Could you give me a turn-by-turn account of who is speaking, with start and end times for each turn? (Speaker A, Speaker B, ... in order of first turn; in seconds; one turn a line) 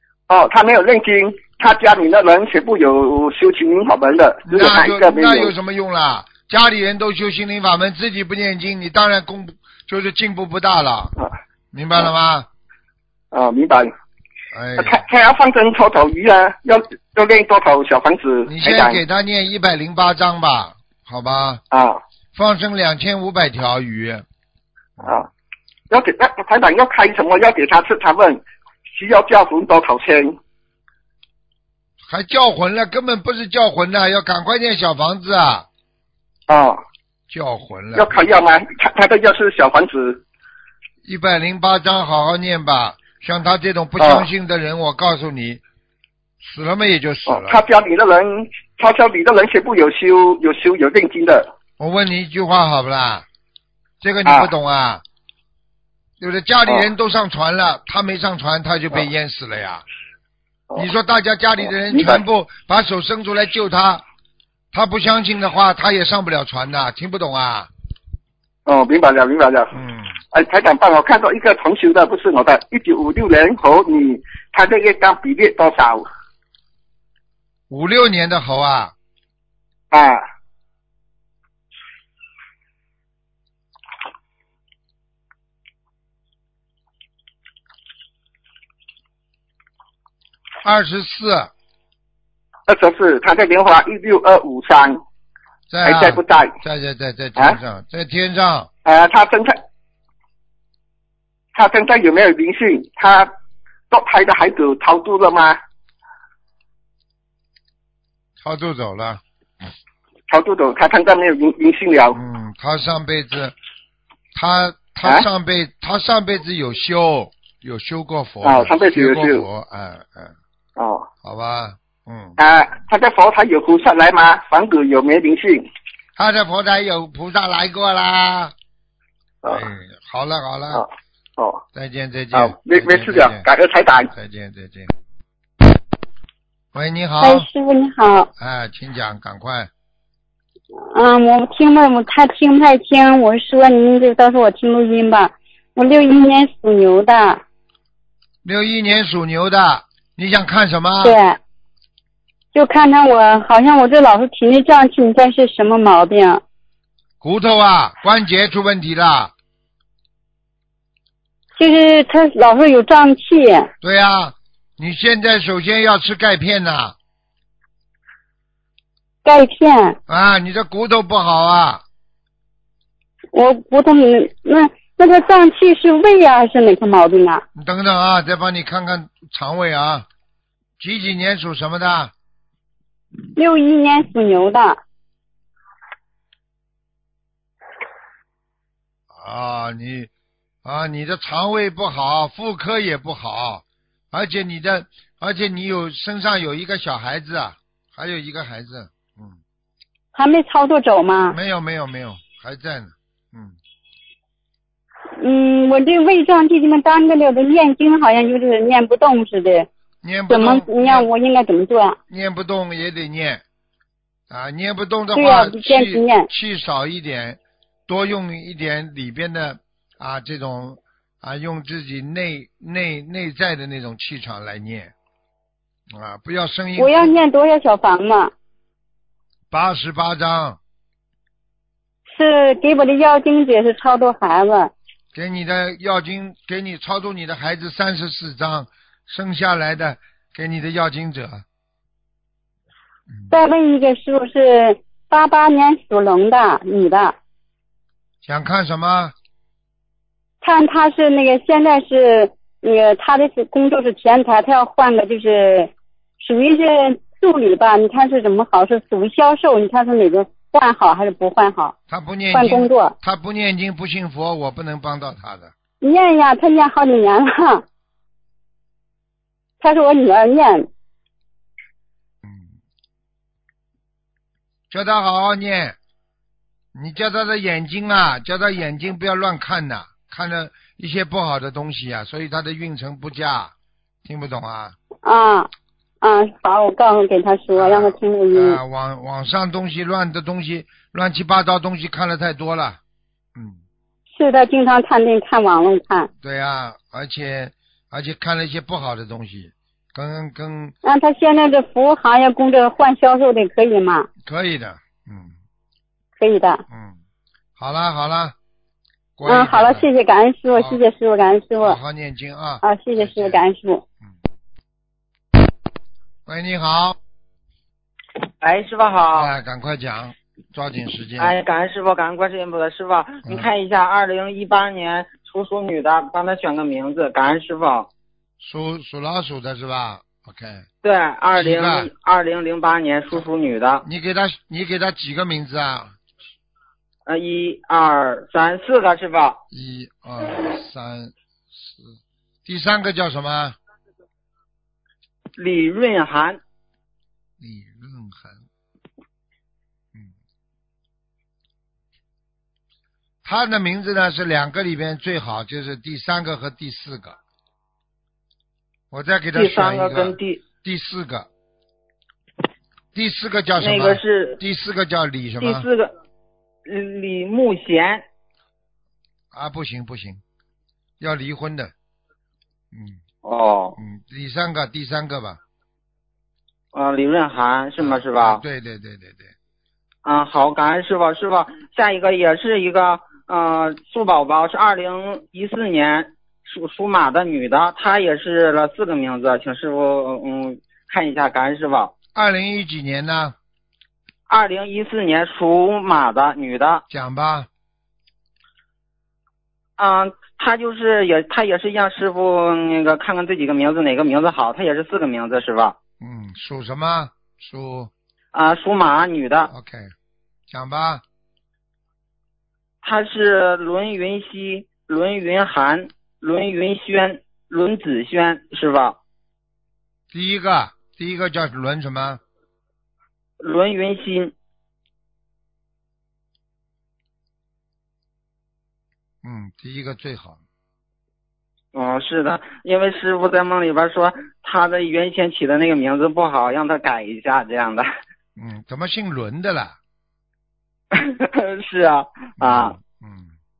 Speaker A: 0.3-5.5
Speaker B: 4.5-11.2
Speaker B: 11.7-12.5
Speaker A: 13.3-13.9
Speaker B: 14.5-15.1
Speaker A: 14.8-19.0
Speaker B: 18.5-21.6
Speaker A: 21.7-22.0
Speaker B: 22.4-24.2
Speaker A: 25.9-28.4
Speaker A: 28.9-30.4
Speaker B: 32.0-35.7
Speaker A: 36.5-36.8
Speaker B: 37.3-38.3
Speaker A: 38.0-40.2
Speaker B: 41.0-45.6
Speaker A: 44.0-44.3
Speaker B: 46.4-47.6
Speaker A: 47.3-51.5
Speaker B: 51.8-53.3
Speaker B: 54.0-55.0
Speaker A: 54.3-54.5
Speaker B: 56.2-59.8
Speaker B: 60.8-64.0
Speaker A: 61.9-62.2
Speaker B: 64.7-67.7
Speaker A: 68.7-69.8
Speaker B: 69.7-70.2
Speaker A: 70.3-76.1
Speaker B: 77.7-78.9
Speaker A: 79.9-80.2
Speaker B: 90.6-91.5
Speaker A: 92.7-95.0
Speaker B: 95.7-98.7
Speaker A: 95.8-96.5
Speaker A: 98.8-99.6
Speaker A: 101.5-103.3
Speaker A: 103.9-105.6
Speaker B: 108.4-109.2
Speaker A: 110.3-112.2
Speaker B: 112.1-113.5
Speaker B: 114.3-120.3
Speaker A: 118.4-119.5
Speaker A: 120.8-121.1
Speaker B: 121.2-122.4
Speaker A: 122.4-125.6
Speaker B: 126.2-128.5
Speaker B: 129.4-130.9
Speaker B: 131.7-133.4
Speaker A: 132.3-134.1
Speaker B: 134.1-134.9
Speaker B: 136.7-137.5
Speaker C: 137.2-138.3
Speaker B: 138.4-139.7
Speaker C: 140.8-147.4
Speaker B: 148.4-151.2
Speaker C: 151.0-151.4
Speaker C: 152.5-156.4
Speaker B: 157.2-159.3
Speaker C: 161.6-163.7
Speaker B: 163.8-167.0
Speaker C: 169.2-170.0
Speaker B: 170.1-171.8
Speaker C: 173.3-177.4
Speaker B: 177.6-180.1
Speaker B: 180.8-182.1
Speaker C: 183.4-184.8
Speaker B: 189.2-190.1
Speaker B: 190.6-199.4
Speaker C: 200.1-201.4
Speaker B: 201.3-203.6
Speaker C: 205.2-209.7
Speaker B: 210.0-211.1
Speaker C: 210.3-212.0
Speaker B: 212.1-213.4
Speaker B: 214.3-224.9
Speaker C: 215.1-216.3
Speaker B: 225.9-227.2
Speaker C: 226.8-228.3
Speaker B: 229.5-230.6
Speaker C: 232.1-234.7
Speaker B: 235.1-241.4
Speaker C: 243.3-247.2
Speaker B: 248.2-249.1
Speaker C: 250.4-261.8
Speaker B: 261.9-265.5
Speaker C: 262.3-262.9
Speaker C: 265.8-267.6
Speaker C: 269.6-270.7
Speaker B: 272.2-272.5
Speaker B: 274.7-275.8
Speaker B: 276.8-284.8
Speaker C: 285.0-285.5
Speaker C: 286.0-288.6
Speaker B: 287.5-292.8
Speaker C: 294.1-296.1
Speaker B: 296.2-300.8
Speaker C: 300.8-304.1
Speaker B: 304.2-305.4
Speaker C: 306.2-306.6
Speaker B: 306.7-307.0
Speaker B: 307.6-308.4
Speaker B: 309.2-309.9
Speaker C: 309.3-311.8
Speaker B: 310.6-310.8
Speaker B: 311.6-313.4
Speaker C: 312.6-313.8
Speaker B: 316.3-317.0
Speaker D: 318.4-319.3
Speaker B: 319.1-321.4
Speaker D: 321.2-327.9
Speaker B: 328.4-330.7
Speaker D: 330.8-333.9
Speaker B: 331.4-331.9
Speaker B: 333.8-336.0
Speaker D: 337.1-339.4
Speaker B: 339.5-343.6
Speaker D: 345.4-346.4
Speaker B: 347.4-348.4
Speaker B: 353.2-357.2
Speaker B: 358.9-361.3
Speaker D: 359.3-360.4
Speaker B: 362.9-365.7
Speaker D: 363.6-364.4
Speaker D: 365.4-365.9
Speaker D: 366.6-368.1
Speaker B: 369.3-370.2
Speaker B: 371.0-371.7
Speaker B: 372.7-373.0
Speaker D: 373.2-373.8
Speaker B: 373.8-375.4
Speaker D: 376.7-378.4
Speaker B: 377.8-379.3
Speaker D: 380.1-391.9
Speaker B: 392.1-393.4
Speaker D: 394.3-396.8
Speaker B: 396.9-397.5
Speaker D: 399.8-405.8
Speaker B: 406.0-407.9
Speaker D: 408.3-409.5
Speaker B: 409.5-409.9
Speaker B: 410.5-411.0
Speaker D: 412.8-419.0
Speaker B: 420.1-422.2
Speaker D: 423.4-424.3
Speaker B: 429.2-430.4
Speaker D: 431.7-437.9
Speaker B: 438.4-439.8
Speaker D: 440.9-442.8
Speaker B: 442.4-443.3